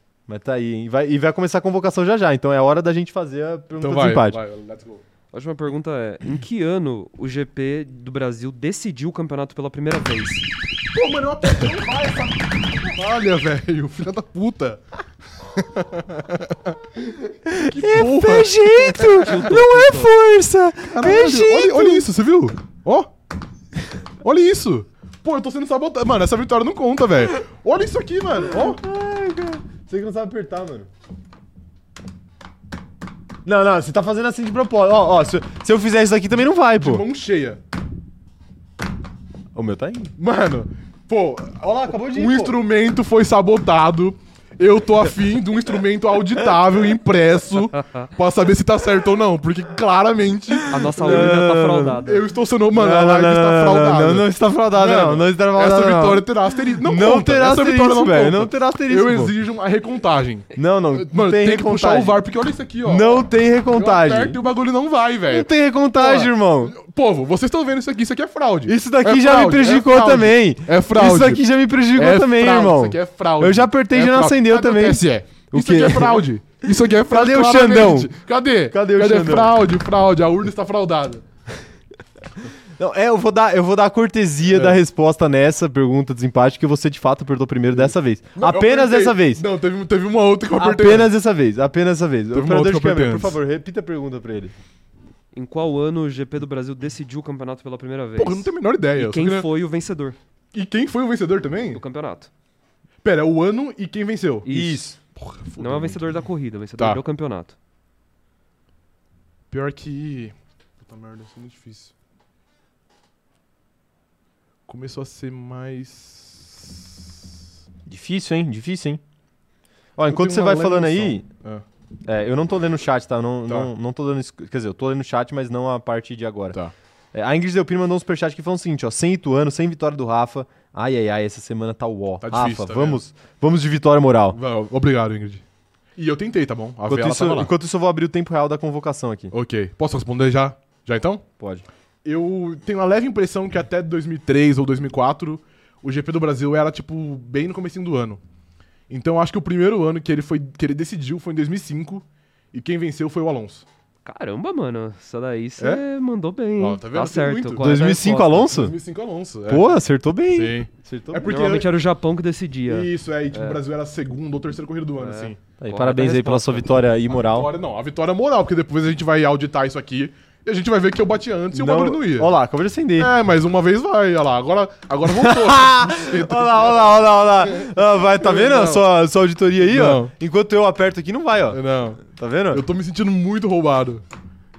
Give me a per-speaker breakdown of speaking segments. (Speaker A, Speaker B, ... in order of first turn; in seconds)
Speaker A: 0.3-4.4, 17.5-22.1, 28.5-30.9, 33.5-37.0, 39.5-40.1, 41.6-42.6, 50.9-52.0, 52.7-56.3, 56.8-59.3, 60.5-62.2, 62.9-64.4, 65.3-66.8, 68.7-76.3, 76.9-78.2, 78.7-79.5, 82.8-89.4, 90.6-94.5, 104.5-105.0, 117.9-119.0, 120.0-121.3, 122.1-126.6, 127.1-134.4, 136.9-139.3, 141.4-141.7, 157.6-158.8, 159.5-161.3, 165.6-167.5, 171.5-173.1, 175.1-182.7
Speaker B: 3.8-5.0, 10.9-14.8, 15.4-19.3, 20.9-23.1, 24.2-28.8, 36.8-37.6, 40.2-71.4, 71.9-81.2, 84.5-84.8, 87.7-91.1, 92.3-93.4, 98.2-99.5, 100.5-101.8, 103.0-104.5, 105.2-106.0, 109.5-111.9, 114.7-117.2, 120.1-121.7, 123.5-123.7, 132.2-133.0, 134.3-135.4, 136.0-137.5, 139.3-141.2, 142.1-148.2, 148.9-153.7, 155.6-155.8, 156.6-157.8, 158.5-159.8, 160.3-161.7, 162.7-165.4, 167.1-172.3, 173.0-178.8, 179.6-180.1, 181.5-184.0
Speaker C: 5.3-10.5, 18.9-20.1, 50.7-52.2, 95.3-100.2, 101.7-102.3, 104.5-105.0, 105.6-107.5, 154.1-158.6, 161.3-163.6, 165.0-166.7